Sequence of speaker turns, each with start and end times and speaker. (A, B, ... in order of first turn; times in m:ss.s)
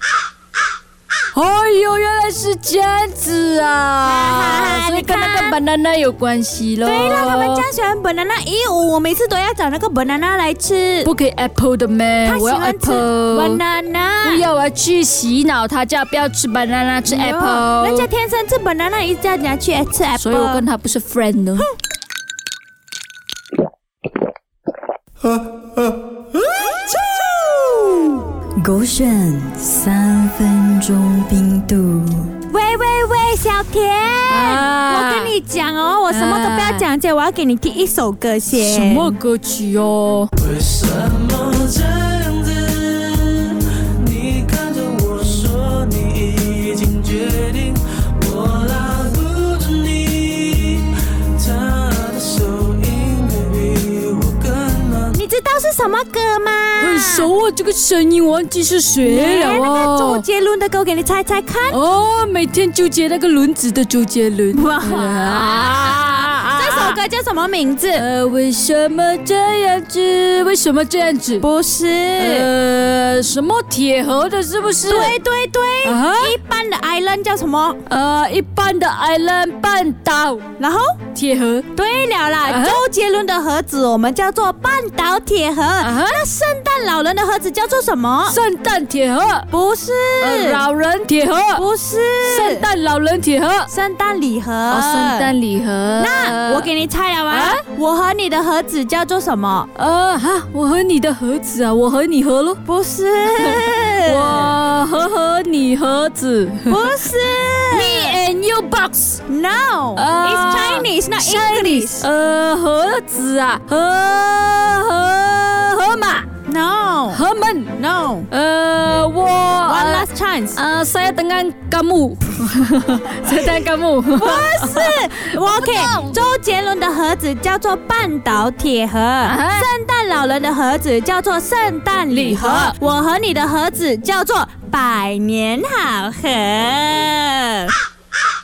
0:01.3-0:07.7 A
0:04.0-0:05.6 B
0:06.8-0:11.1 B
0:11.0-0:13.6 A
0:12.2-0:14.5 B
0:14.2-0:18.1 A
0:17.1-0:20.7 B
0:20.2-0:21.7 A
0:28.6-0:32.4 C
0:32.5-0:39.2 B
0:34.3-0:35.4 A
0:36.1-0:36.9 A
0:38.5-0:40.3 A
0:40.7-0:41.0 D
0:41.7-0:43.2 D
0:44.9-0:45.5 D
0:48.8-0:50.5 D
0:53.3-0:53.8 D
0:55.0-0:57.3 B
0:56.8-1:00.2 A
0:59.0-1:01.8 B
1:01.7-1:07.0 A
1:04.5-1:08.0 B
1:08.0-1:11.5 A
1:11.4-1:12.5 B
1:12.2-1:15.2 A
1:14.8-1:17.8 B
1:15.8-1:16.4 A
1:17.9-1:20.5 A
1:20.6-1:21.0 B
1:21.1-1:21.7 A
1:21.7-1:28.4 B
1:22.4-1:22.9 A
1:25.8-1:26.2 A
1:28.3-1:29.5 A
1:29.5-1:30.6 B
1:30.2-1:31.7 A
1:31.5-1:32.7 B
1:32.2-1:33.7 A
1:33.7-1:35.3 B
1:34.7-1:36.7 A
1:36.0-1:39.7 B
1:37.3-1:37.6 A
1:39.8-1:42.6 A
1:42.6-1:44.6 B
1:43.3-1:47.0 A
1:46.7-1:48.2 B
1:47.7-1:49.2 A
1:49.3-1:52.1 B
1:50.0-1:56.4 A
1:56.4-1:57.2 B
1:57.1-2:06.2 A
1:57.8-1:58.3 B
1:59.7-2:00.6 B
2:04.1-2:17.8 B
2:09.2-2:09.7 A
2:12.1-2:12.8 A